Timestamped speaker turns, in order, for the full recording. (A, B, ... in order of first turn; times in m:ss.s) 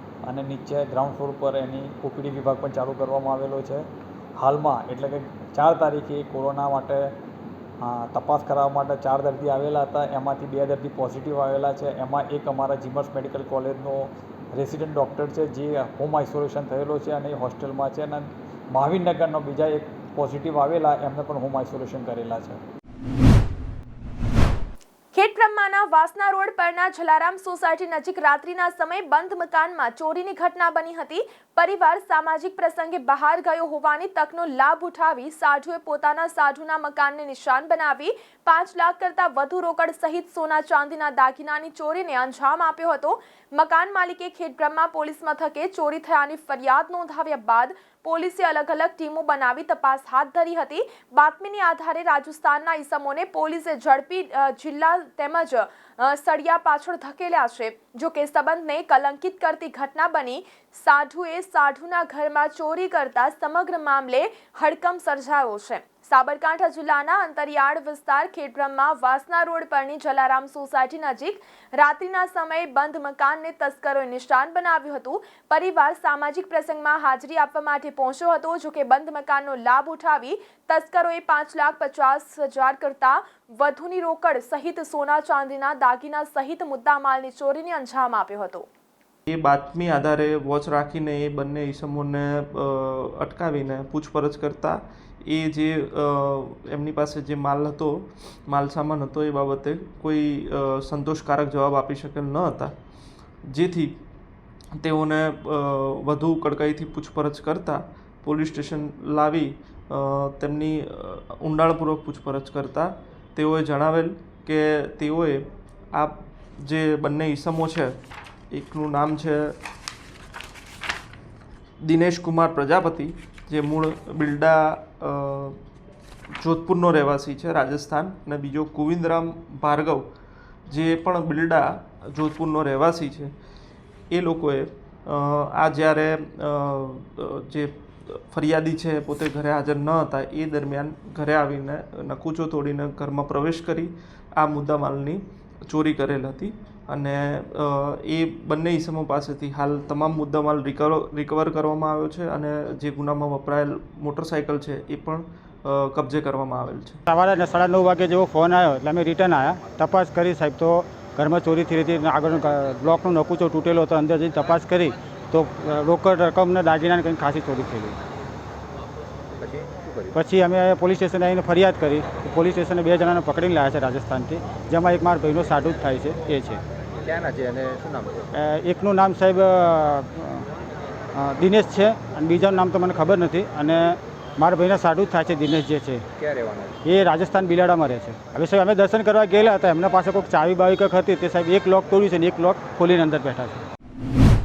0:00.3-0:03.9 A
0:04.4-0:07.2 A
0:07.8-0:22.6 A
0:25.1-1:28.7 B
1:29.3-1:42.8 C
1:43.5-1:44.0 C
1:44.8-1:58.0 C
1:58.5-1:59.6 C
2:01.8-2:05.6 C
2:06.4-2:10.1 C
2:10.7-2:13.3 C
2:14.1-2:37.0 C
2:37.1-2:48.0 D
2:49.4-2:50.1 E
2:50.1-2:56.6 D
2:57.0-2:58.3 E
2:58.3-3:00.5 D
3:01.2-3:06.0 D
3:06.2-3:06.7 E
3:06.8-3:13.6 D